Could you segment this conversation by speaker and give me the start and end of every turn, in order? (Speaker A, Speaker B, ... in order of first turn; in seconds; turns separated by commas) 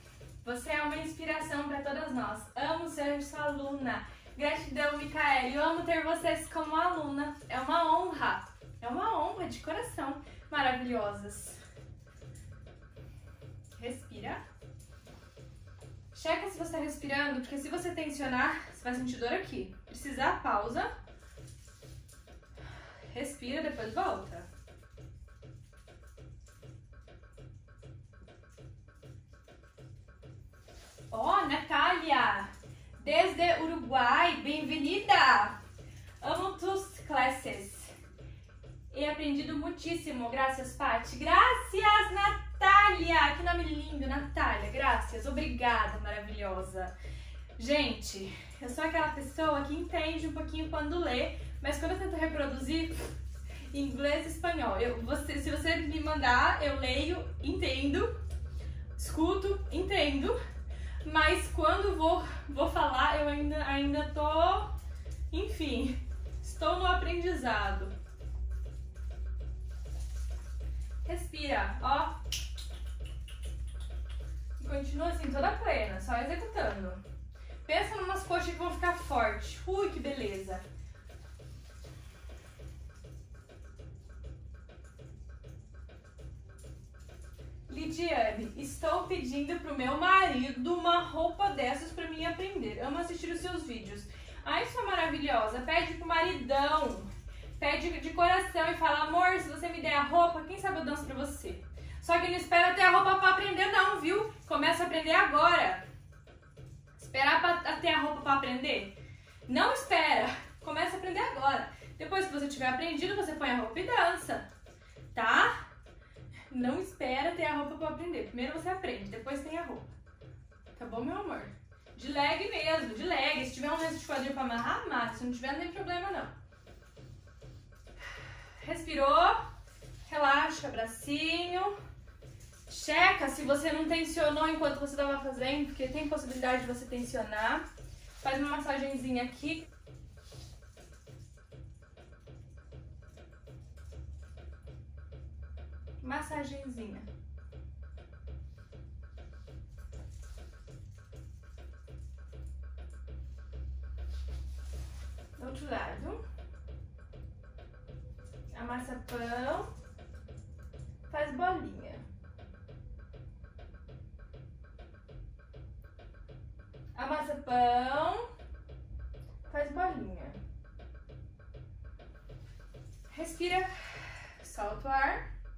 Speaker A: 0.4-11.6, Speaker A: 13.8-14.4, Speaker A: 16.1-20.9, Speaker A: 23.1-24.4, Speaker A: 31.1-35.6, Speaker A: 36.2-37.9, Speaker A: 38.9-46.9, Speaker A: 47.6-53.1, Speaker A: 53.7-58.1, Speaker A: 59.0-60.4, Speaker A: 61.0-64.8, Speaker A: 65.3-67.9, Speaker A: 71.0-72.2, Speaker A: 74.6-77.0, Speaker A: 77.6-80.6, Speaker A: 87.7-105.8, Speaker A: 107.0-109.0, Speaker A: 109.5-114.5, Speaker A: 115.1-115.5, Speaker A: 116.5-119.9, Speaker A: 120.7-126.3, Speaker A: 128.6-129.4, Speaker A: 130.0-131.7, Speaker A: 132.7-137.7, Speaker A: 138.2-139.7, Speaker A: 146.0-147.1, Speaker A: 155.3-156.2, Speaker A: 158.5-159.7, Speaker A: 161.1-162.0, Speaker A: 166.9-168.3, Speaker A: 169.5-170.4, Speaker A: 173.1-175.3